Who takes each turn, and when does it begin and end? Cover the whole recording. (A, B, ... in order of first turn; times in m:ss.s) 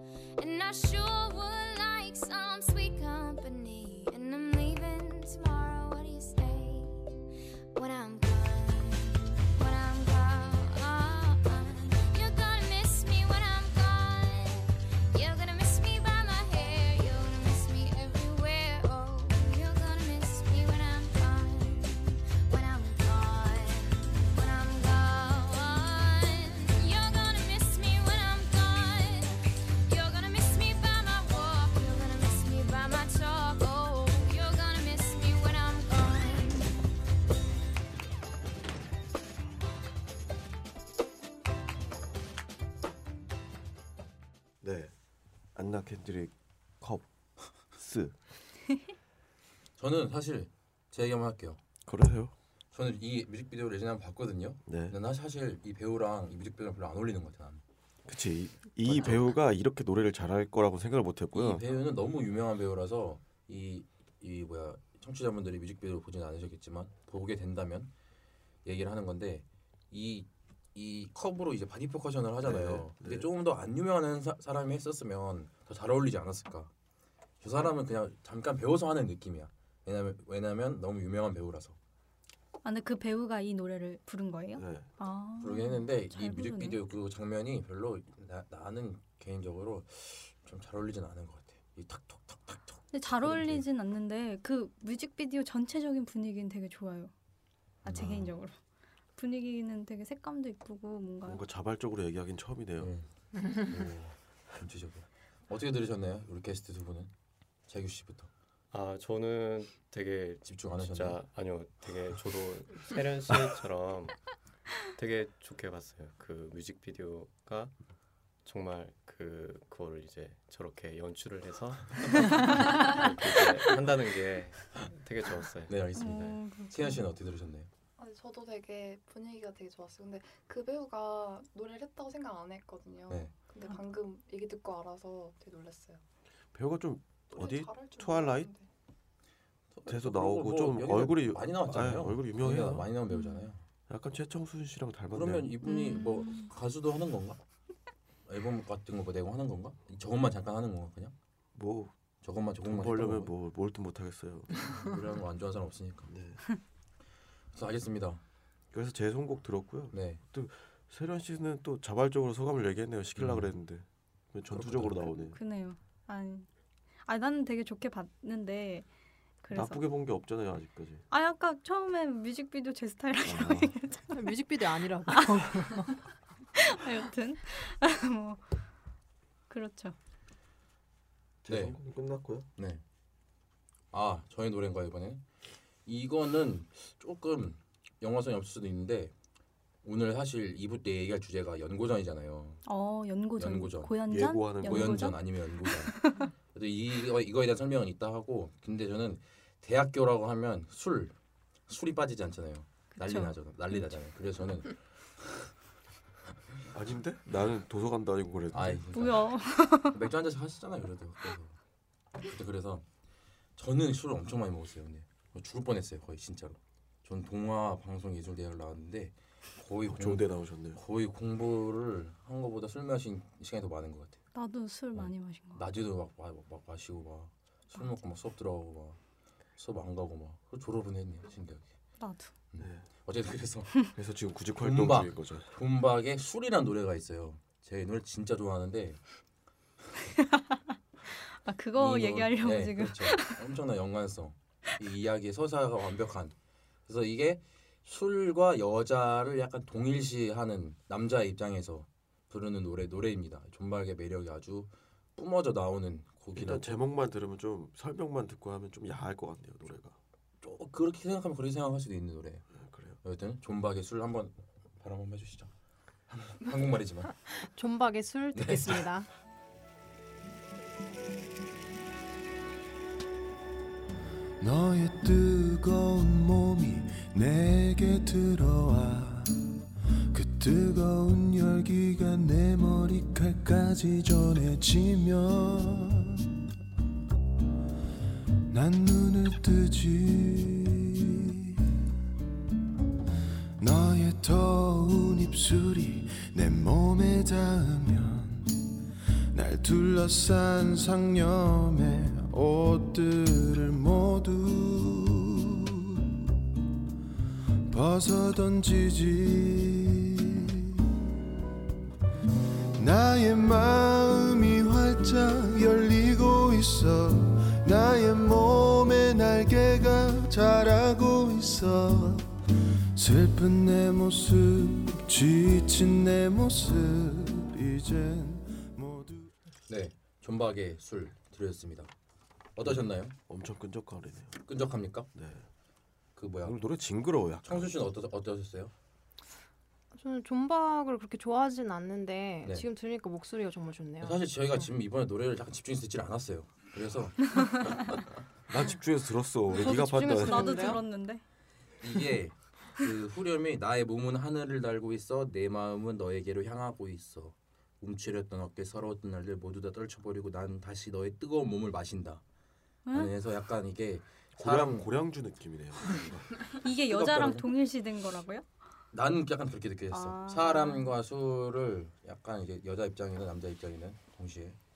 0:00.4-0:07.1 A
0:07.7-0:36.8 A
0:44.6-0:44.9 B
0:45.6-0:47.1 B
0:47.7-0:48.2 B
0:49.8-0:51.6 C
0:51.9-0:52.3 B
0:52.7-0:57.6 C
0:54.6-0:55.0 B
0:58.1-1:01.6 B
0:58.8-0:59.3 C
1:01.3-1:07.9 C
1:08.6-1:16.7 C
1:12.4-1:13.3 B
1:17.4-1:21.8 C
1:22.6-1:26.8 D
1:24.6-1:24.9 B
1:25.4-1:33.6 C
1:32.9-1:37.1 D
1:37.8-1:38.4 C
1:37.8-1:38.6 D
1:39.2-1:41.4 D
1:41.2-1:42.9 B
1:42.8-1:47.1 C
1:47.7-1:48.3 C
1:48.7-1:54.3 E
1:50.4-1:51.2 C
1:54.9-1:57.7 E
1:58.4-2:06.3 E
2:05.7-2:07.7 C
2:06.0-2:07.0 D
2:08.0-2:16.0 F
2:13.1-2:13.3 C
2:16.5-2:18.5 B
2:17.3-2:18.7 F
2:19.7-2:23.6 C
2:19.9-2:22.9 B
2:23.1-2:23.5 D
2:23.9-2:25.5 B
2:25.1-2:27.4 C
2:25.6-2:26.5 D
2:28.3-2:31.1 C
2:31.6-2:31.9 B
2:32.2-2:33.3 C
2:32.6-2:34.9 B
2:34.6-2:36.1 C
2:36.1-2:36.4 B
2:37.5-2:38.2 C
2:38.7-2:45.4 B
2:39.9-2:40.2 C
2:43.2-2:43.5 C
2:44.5-2:45.1 C
2:45.2-2:46.5 D
2:47.0-2:48.9 D
2:49.4-2:49.8 D
2:49.5-2:51.0 B
2:51.1-2:54.3 D
2:53.2-2:53.7 B
2:54.1-2:56.0 G
2:55.1-2:55.6 D
2:56.6-2:58.6 D
2:59.5-3:00.0 D
3:01.4-3:02.5 B
3:01.5-3:01.8 C
3:02.6-3:02.8 C
3:03.9-3:05.2 C
3:05.8-3:09.1 C
3:09.8-3:12.6 C
3:12.6-3:16.3 D
3:13.4-3:14.0 C
3:14.1-3:15.2 B
3:14.5-3:21.1 C
3:21.7-3:24.8 C
3:22.9-3:24.0 D
3:26.7-3:28.8 B
3:28.5-3:29.4 C
3:28.9-3:30.0 D
3:29.9-3:31.6 C
3:32.3-3:32.8 C
3:33.6-3:44.2 C
3:39.8-3:40.8 B
3:44.3-3:45.7 D
3:44.9-3:49.0 C
3:49.6-3:51.7 C
3:52.0-3:52.4 D
3:52.5-3:53.9 C
3:52.6-3:52.9 B
3:54.0-3:55.6 B
3:54.6-3:59.0 C
4:00.2-4:00.7 D
4:01.4-4:03.5 D
4:01.8-4:06.3 C
4:06.9-4:16.8 C
4:16.3-4:20.0 B
4:20.4-4:22.5 C
4:22.5-4:23.0 B
4:23.0-4:25.5 C
4:26.1-4:27.2 C
4:27.4-4:29.1 G
4:28.4-4:28.8 C
4:34.4-4:39.6 H
4:40.1-4:46.4 H
4:48.5-4:51.9 H
4:53.6-4:58.8 H
4:59.3-5:06.4 H
5:07.7-5:11.2 H
5:12.8-5:29.3 H
5:29.7-5:31.9 C
5:32.6-5:33.2 C
5:32.6-5:34.5 B
5:34.5-5:35.1 C
5:35.1-5:35.5 B
5:36.2-5:36.6 C
5:36.4-5:37.8 B
5:37.4-5:38.7 C
5:39.9-5:44.2 G
5:44.0-5:48.0 C
5:48.5-5:50.8 B
5:49.6-5:50.8 G
5:49.7-5:51.2 D
5:51.8-6:02.2 C
6:02.9-6:03.1 D
6:02.9-6:04.9 C
6:04.4-6:06.4 B
6:06.6-6:08.4 D
6:06.8-6:07.5 C
6:08.9-6:14.6 C
6:09.9-6:11.0 D